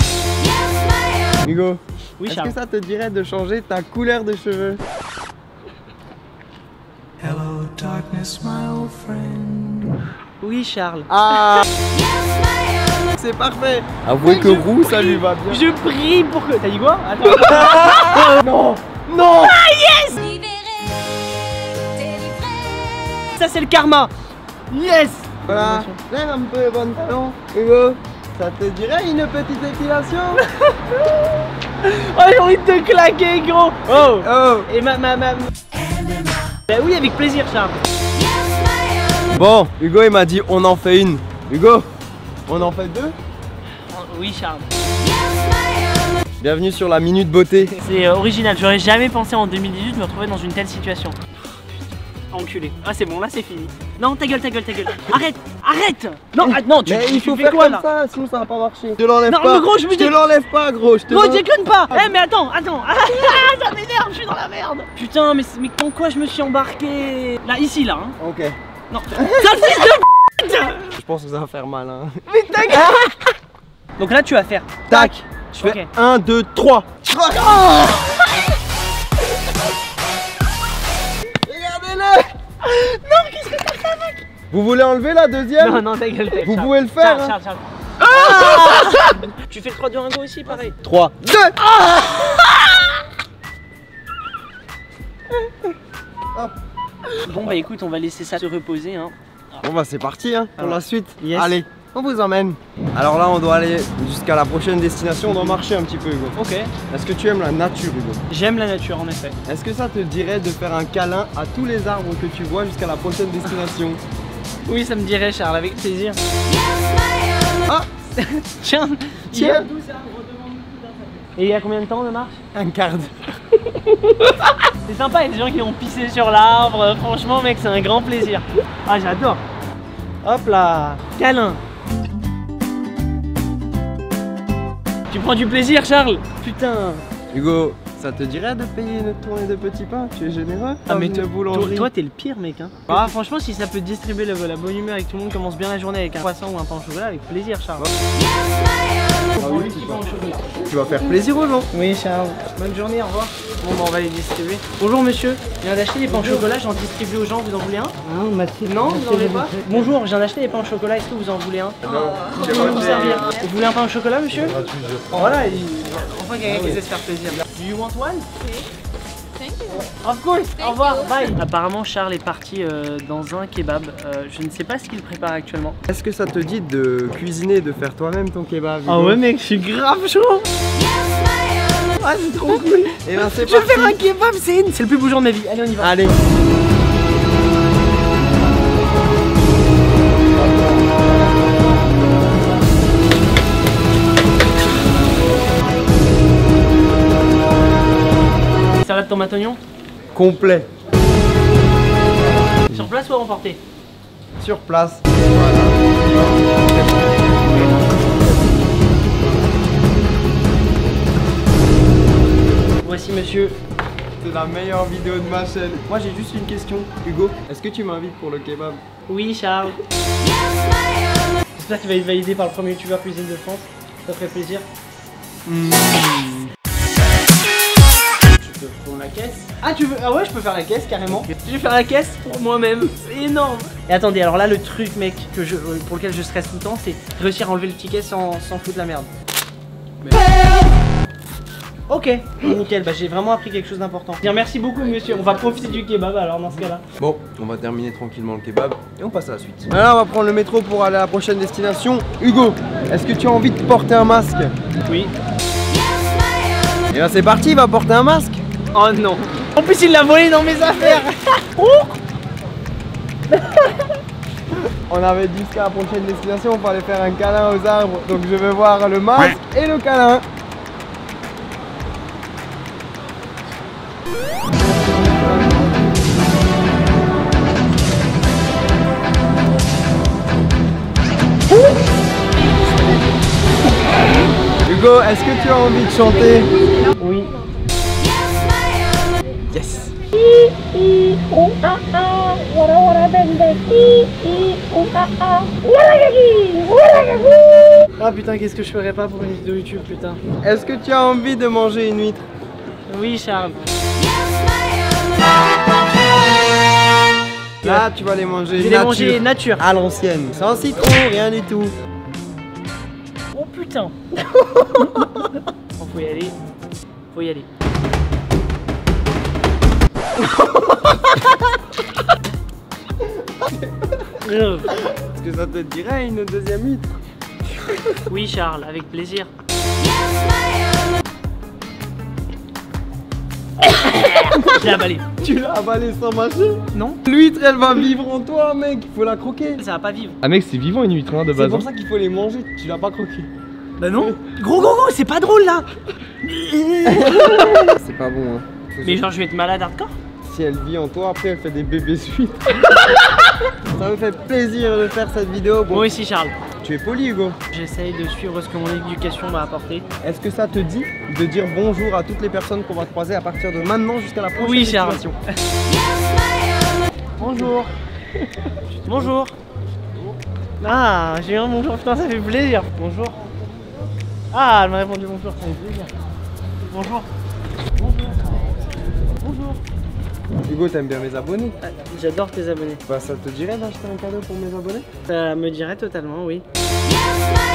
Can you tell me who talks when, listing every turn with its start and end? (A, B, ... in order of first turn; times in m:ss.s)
0:01.4-0:04.8 A
0:02.2-0:02.6 B
0:07.3-0:09.8 C
0:10.4-0:11.6 B
0:11.1-0:11.7 A
0:13.0-0:15.6 A
0:14.2-0:18.4 B
0:17.2-0:19.6 A
0:19.1-0:20.3 B
0:20.3-0:23.2 C
0:23.2-0:24.1 B
0:24.7-0:26.0 B
0:25.5-0:30.4 A
0:30.5-0:37.8 B
0:34.0-0:34.7 A
0:39.3-0:41.9 A
0:42.5-0:43.2 A
0:43.9-0:44.7 B
0:46.4-0:47.8 A
0:47.8-0:51.2 B
0:52.3-0:57.9 B
0:56.4-1:02.1 A
0:59.2-1:00.2 B
1:01.1-1:08.2 B
1:08.2-1:08.6 A
1:08.9-1:11.0 B
1:09.1-1:09.5 A
1:11.0-1:13.0 A
1:12.3-1:13.3 B
1:14.0-1:15.9 B
1:14.9-1:17.7 A
1:17.2-1:18.4 B
1:21.3-1:22.3 A
1:22.6-1:24.2 B
1:24.5-1:27.4 A
1:25.6-1:30.8 B
1:28.1-1:29.2 A
1:30.5-1:31.6 A
1:31.7-1:32.9 B
1:37.2-1:39.6 B
1:39.6-1:46.4 A
1:40.6-1:41.6 B
1:45.3-1:45.6 B
1:46.4-1:46.7 B
1:46.9-1:48.2 A
1:48.3-1:49.4 B
1:49.5-1:54.0 A
1:54.7-1:56.2 B
1:58.2-2:02.5 B
1:59.3-1:59.7 A
2:02.5-2:03.3 A
2:04.2-2:09.4 B
2:10.2-2:11.6 B
2:15.1-2:17.0 B
2:17.3-2:21.9 A
2:20.9-2:27.9 B
2:29.4-2:30.6 B
2:29.4-2:31.7 A
2:31.7-2:38.0 B
2:38.6-2:44.6 B
2:41.8-2:43.3 A
2:44.5-2:45.6 A
2:45.1-2:48.3 B
2:46.5-2:46.8 A
2:49.7-2:55.8 B
2:55.9-2:59.2 A
2:58.9-3:00.5 B
3:02.0-3:06.0 B
3:03.0-3:04.0 A
3:05.8-3:06.2 A
3:10.3-3:10.8 A
3:18.8-3:19.6 B
3:20.2-3:20.7 A
3:22.7-3:23.6 B
3:24.4-3:27.6 A
3:32.8-3:33.6 B
3:34.2-3:38.8 A
3:39.1-3:39.8 B
3:41.6-3:44.7 B
3:45.5-3:46.5 A
3:48.3-3:59.1 B
4:01.9-4:06.8 B
4:07.0-4:14.5 A
4:14.9-4:15.1 B
4:16.9-4:18.4 A
4:18.7-4:22.0 B
4:23.3-4:23.9 B
4:24.9-4:30.2 A
4:44.6-4:46.6 A
4:47.0-4:47.3 B
4:49.5-4:49.9 A
4:50.2-4:57.9 C
4:58.0-5:00.2 B
5:00.4-5:02.3 A
5:02.9-5:03.6 B
5:07.6-5:11.8 A
5:08.6-5:09.6 B
5:13.3-5:14.0 B
5:15.8-5:16.4 B
5:17.1-5:17.5 B
5:20.2-5:21.3 A
5:24.2-5:24.7 B
5:24.8-5:26.9 A
5:27.6-5:27.9 A
5:28.1-5:29.3 B
5:33.6-5:35.1 B
5:34.3-5:39.6 A
5:36.7-5:37.0 B
5:39.6-5:40.2 B
5:40.2-5:43.3 A
5:41.4-5:41.7 B
5:43.8-5:45.7 B
5:46.2-5:47.8 B
5:46.8-5:49.0 A
5:48.8-5:50.0 B
5:50.2-5:52.7 A
5:52.8-5:53.3 B
5:53.7-5:55.9 A
5:55.7-5:56.4 B
5:56.6-5:57.4 A
5:57.5-5:59.8 B
6:00.0-6:05.2 A
6:04.4-6:05.0 B
6:07.2-6:07.7 B
6:08.8-6:09.4 B
6:10.6-6:13.2 B
6:14.3-6:15.9 B
6:16.7-6:17.1 B
6:17.8-6:18.3 B
6:19.2-6:19.6 B
6:20.5-6:21.6 A
6:21.6-6:22.8 B
6:22.9-6:24.9 A
6:25.1-6:26.4 B